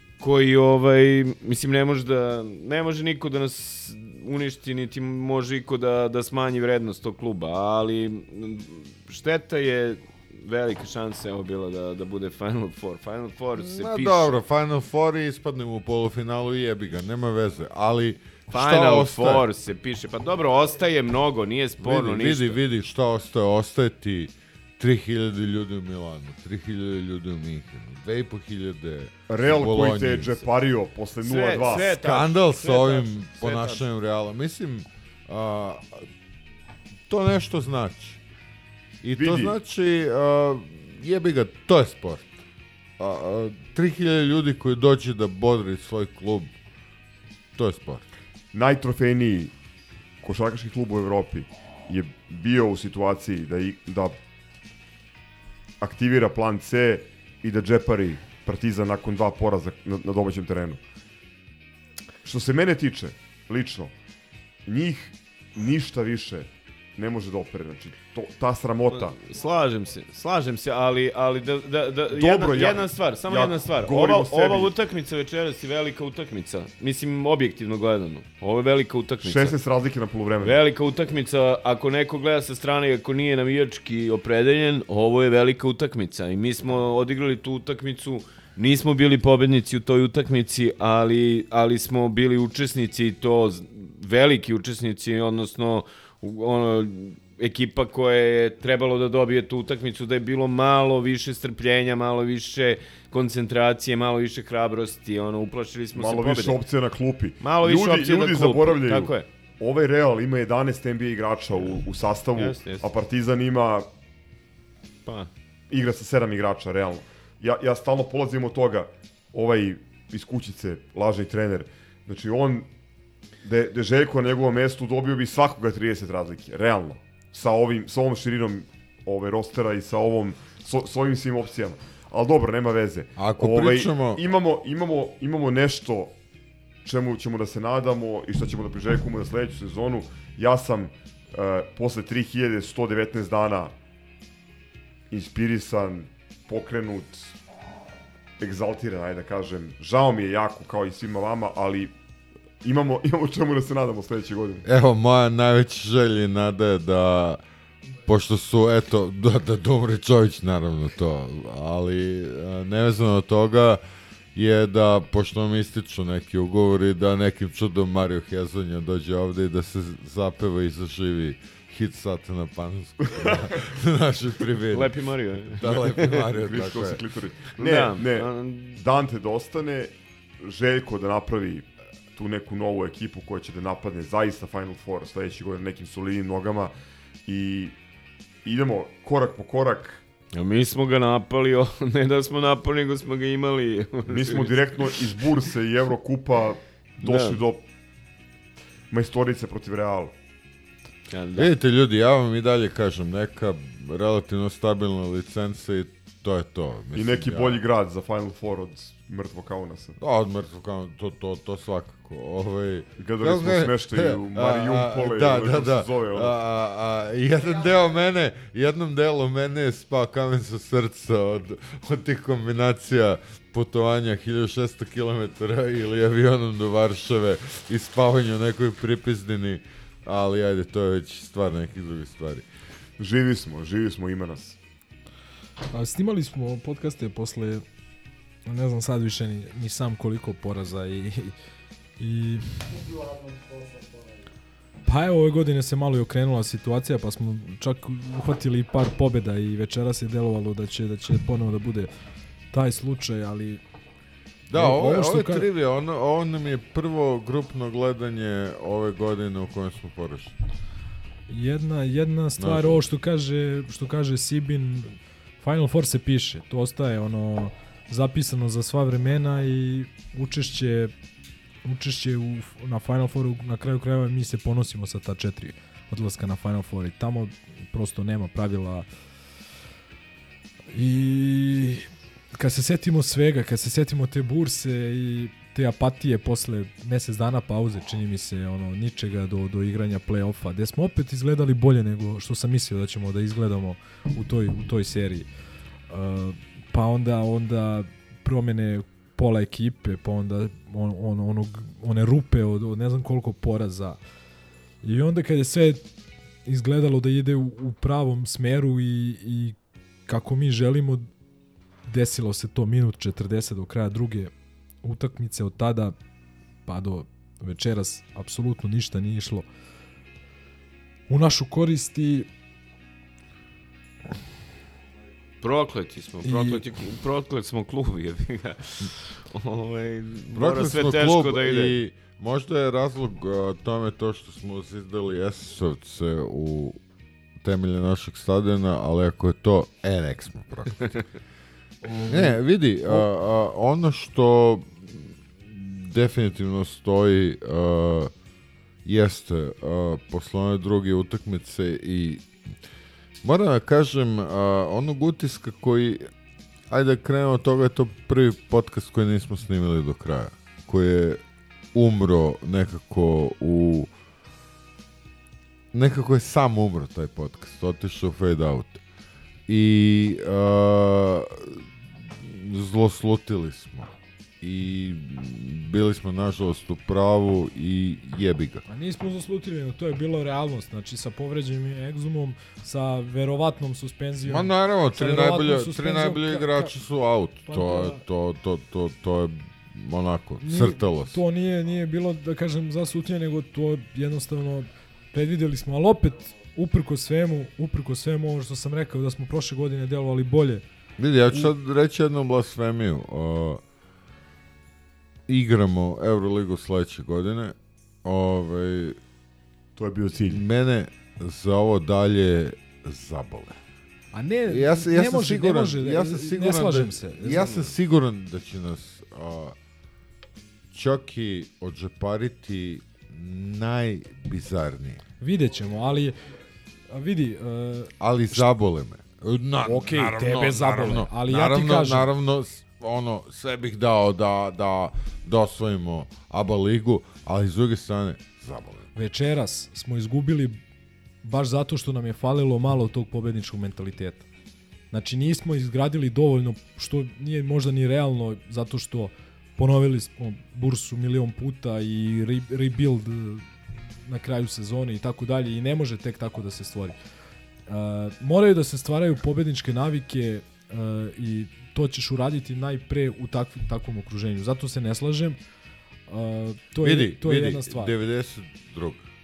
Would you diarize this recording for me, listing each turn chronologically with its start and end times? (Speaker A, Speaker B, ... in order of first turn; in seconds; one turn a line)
Speaker A: 0.2-14.4
Speaker B: 13.6-19.4
Speaker A: 18.5-22.6
Speaker B: 21.8-30.4
Speaker C: 29.3-32.2
Speaker A: 31.2-33.9
Speaker B: 31.8-36.1
Speaker B: 37.1-38.2
Speaker B: 39.0-42.3
Speaker C: 39.1-39.5
Speaker B: 43.0-46.5
Speaker B: 47.5-48.0
Speaker C: 48.5-49.5
Speaker C: 50.2-54.1
Speaker C: 55.8-60.8
Speaker C: 62.2-63.9
Speaker C: 64.7-69.2
Speaker A: 68.9-79.6
Speaker C: 72.1-74.8
Speaker C: 79.2-80.6
Speaker A: 80.4-106.6
Speaker C: 105.9-113.9
Speaker A: 107.4-109.2
Speaker A: 112.3-112.9
Speaker C: 115.7-122.7
Speaker C: 123.4-136.1
Speaker B: 133.2-134.2
Speaker C: 136.8-143.7
Speaker C: 145.1-147.3
Speaker C: 148.4-151.9
Speaker C: 152.6-154.6
Speaker B: 154.6-157.4
Speaker B: 158.1-163.8
Speaker B: 164.3-174.9
Speaker C: 173.1-173.5
Speaker A: 174.7-176.2
Speaker B: 175.5-177.0
Speaker C: 175.8-186.7
Speaker A: 177.6-178.8
Speaker C: 187.2-187.7
Speaker C: 188.4-190.0
Speaker A: 190.3-195.0
Speaker C: 194.1-197.6
Speaker A: 197.0-197.4
Speaker C: 198.9-200.1
Speaker A: 201.1-201.5
Speaker B: 201.4-207.6
Speaker C: 206.9-210.0
Speaker B: 210.0-232.4
Speaker C: 213.0-216.4
Speaker C: 233.0-234.6
Speaker D: 235.7-237.6
Speaker D: 238.4-241.3
Speaker D: 242.0-242.7
Speaker D: 244.8-251.9
Speaker D: 252.5-253.6
Speaker B: 254.5-260.4
Speaker D: 254.6-255.5
Speaker D: 261.3-270.9
Speaker B: 262.4-262.8
Speaker D: 271.6-278.9
Speaker D: 280.7-295.3
Speaker D: 295.9-304.0
Speaker D: 304.8-305.8
Speaker D: 306.4-309.6
Speaker D: 310.1-311.1
Speaker D: 311.9-314.3
Speaker D: 314.8-315.9
Speaker D: 316.6-319.5
Speaker D: 321.1-322.3
Speaker A: 325.4-331.8
Speaker D: 326.2-326.6
Speaker B: 330.3-336.8
Speaker B: 337.4-341.0
Speaker D: 341.8-343.1
Speaker B: 342.1-348.1
Speaker B: 348.8-352.3
Speaker B: 353.2-356.0
Speaker B: 356.7-361.2
Speaker B: 361.7-363.9
Speaker B: 365.7-368.8
Speaker B: 369.5-378.6
Speaker D: 378.7-386.7
Speaker B: 384.2-391.2
Speaker D: 387.4-388.0
Speaker D: 390.4-400.6
Speaker B: 401.0-403.6
Speaker B: 405.3-409.0
Speaker C: 409.8-410.4
Speaker B: 410.2-413.6
Speaker D: 414.1-417.7
Speaker B: 414.5-419.6
Speaker B: 420.7-425.0
Speaker D: 425.2-426.2
Speaker D: 426.9-428.4
Speaker B: 428.0-438.9
Speaker D: 429.6-432.1
Speaker D: 438.9-440.6
Speaker D: 441.2-444.2
Speaker D: 444.9-453.5
Speaker D: 454.1-456.9
Speaker D: 457.7-465.4
Speaker D: 466.1-467.9
Speaker B: 466.8-469.1